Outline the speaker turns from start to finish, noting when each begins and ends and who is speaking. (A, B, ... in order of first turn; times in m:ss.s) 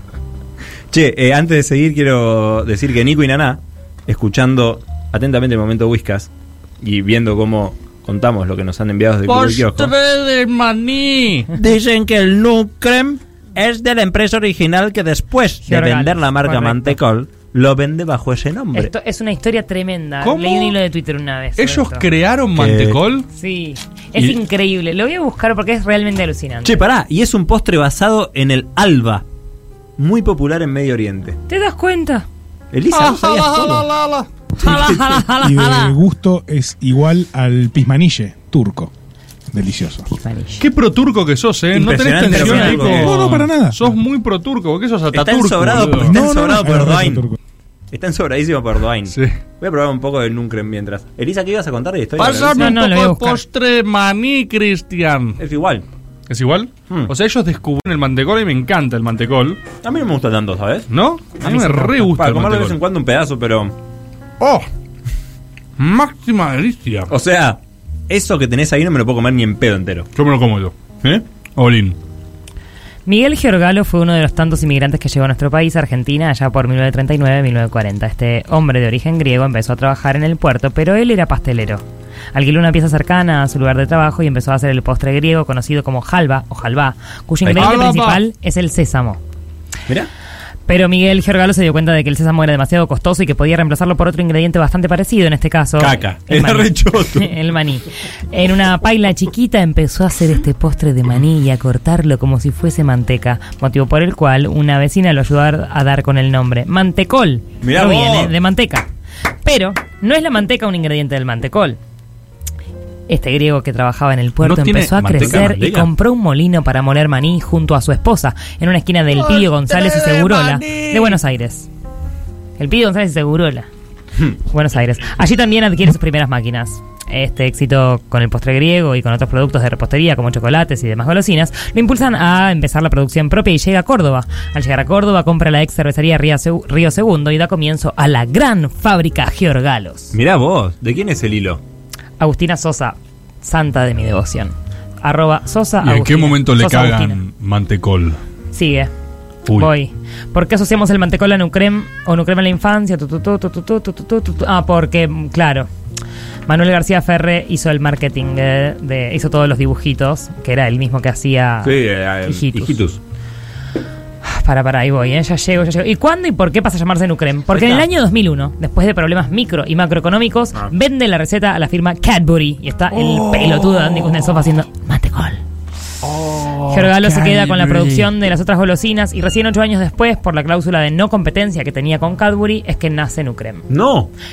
0:00.9-0:09.9 A
0:09.2-0:11.5 B
0:11.5-0:18.9 A
0:15.7-0:17.0 C
0:18.7-0:22.1 C
0:20.2-0:20.8 B
0:21.6-0:23.3 B
0:22.6-0:23.0 A
0:23.3-0:26.8 C
0:26.6-0:29.2 A
0:30.0-0:31.4 A
0:31.5-0:32.3 C
0:32.7-0:33.9 A
0:32.9-0:35.2 B
0:34.6-0:36.0 C
0:35.3-0:38.9 D
0:39.5-0:40.1 D
0:40.1-0:40.7 C
0:40.6-0:46.2 B
0:41.7-0:43.2 A
0:42.3-0:42.9 C
0:42.5-0:43.9 D
0:45.1-0:47.2 A
0:46.1-0:47.4 D
0:47.9-0:52.8 A
0:49.1-0:49.3 B
0:52.2-0:55.4 B
0:52.6-0:53.4 C
0:55.4-0:55.9 A
0:56.3-0:59.6 B
0:59.8-1:00.9 A
1:00.9-1:02.8 B
1:01.5-1:02.0 C
1:02.0-1:03.7 A
1:04.4-1:04.7 B
1:05.8-1:07.1 B
1:07.1-1:10.1 A
1:10.2-1:10.7 B
1:11.6-1:12.0 B
1:13.0-1:29.2 C
1:27.4-1:27.8 A
1:27.5-1:28.2 B
1:30.7-1:48.9 C
1:35.8-1:37.3 A
1:47.6-1:48.3 A
1:49.4-1:51.8 C
1:53.1-2:01.7 C
1:54.4-1:55.9 A
1:54.5-1:55.7 B
1:59.1-2:01.2 B
2:02.6-2:03.7 C
2:04.4-2:20.2 C
2:20.1-2:21.6 A
2:22.2-2:27.2 C
2:25.8-2:28.2 B
2:28.5-2:28.9 C
2:29.5-2:35.7 C
2:36.5-2:42.8 C
2:41.6-2:43.0 A
2:44.2-2:55.4 C
2:47.5-2:47.9 A
2:52.9-2:54.2 B
2:56.0-2:58.1 B
2:56.7-3:03.6 C
3:03.7-3:04.1 A